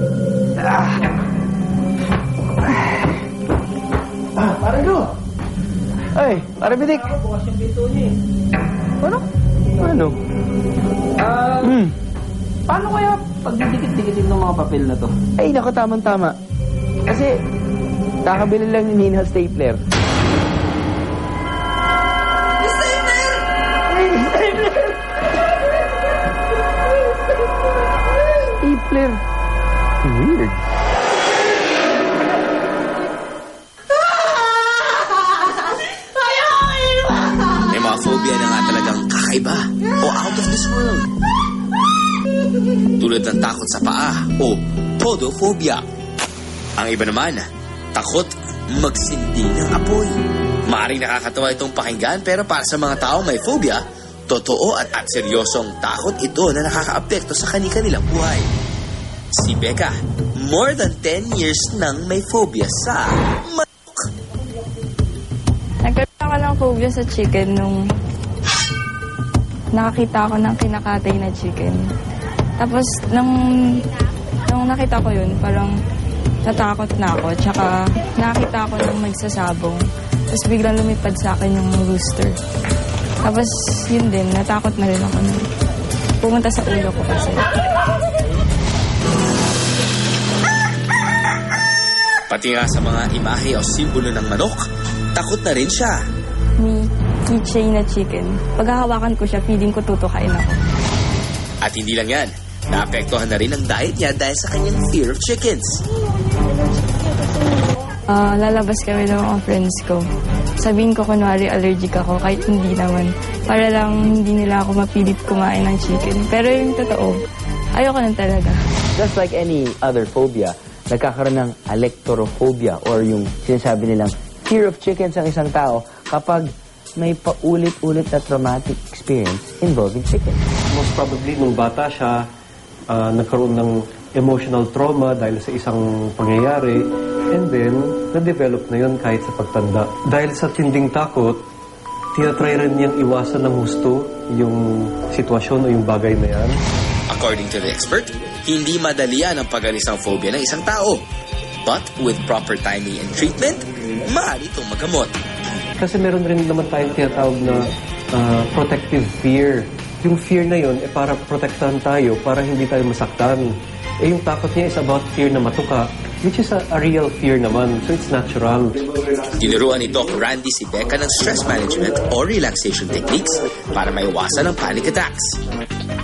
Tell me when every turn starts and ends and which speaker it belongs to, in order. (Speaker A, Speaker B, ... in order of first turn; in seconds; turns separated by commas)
Speaker A: 0.6-1.0, Speaker B: 4.6-5.0, Speaker A: 6.1-7.1, Speaker B: 7.2-8.1, Speaker A: 9.8-10.2, Speaker B: 11.2-11.6, Speaker A: 11.6-11.9, Speaker B: 12.7-15.1, Speaker A: 15.4-16.4, Speaker A: 17.1-17.4, Speaker A: 18.2-19.8, Speaker A: 23.9-24.9, Speaker A: 28.6-29.2, Speaker A: 30.0-30.6, Speaker C: 37.5-41.1, Speaker C: 43.0-45.8, Speaker C: 46.8-50.1, Speaker C: 50.7-58.5, Speaker C: 59.3-63.7, Speaker D: 65.8-67.8, Speaker D: 69.7-71.8, Speaker D: 72.6-73.8, Speaker D: 74.4-75.7, Speaker D: 76.4-82.3, Speaker D: 83.2-85.4, Speaker D: 86.2-87.5, Speaker C: 92.3-94.6, Speaker C: 95.1-96.0, Speaker D: 96.6-100.6, Speaker C: 101.6-105.8, Speaker D: 108.1-110.0, Speaker D: 110.6-117.2, Speaker D: 117.8-118.6, Speaker A: 118.9-130.4, Speaker E: 130.7-132.2, Speaker E: 132.9-141.4, Speaker E: 142.1-146.6, Speaker C: 147.1-151.0, Speaker C: 151.6-155.1, Speaker E: 155.8-157.6, Speaker E: 158.1-169.1, Speaker C: 169.2-175.3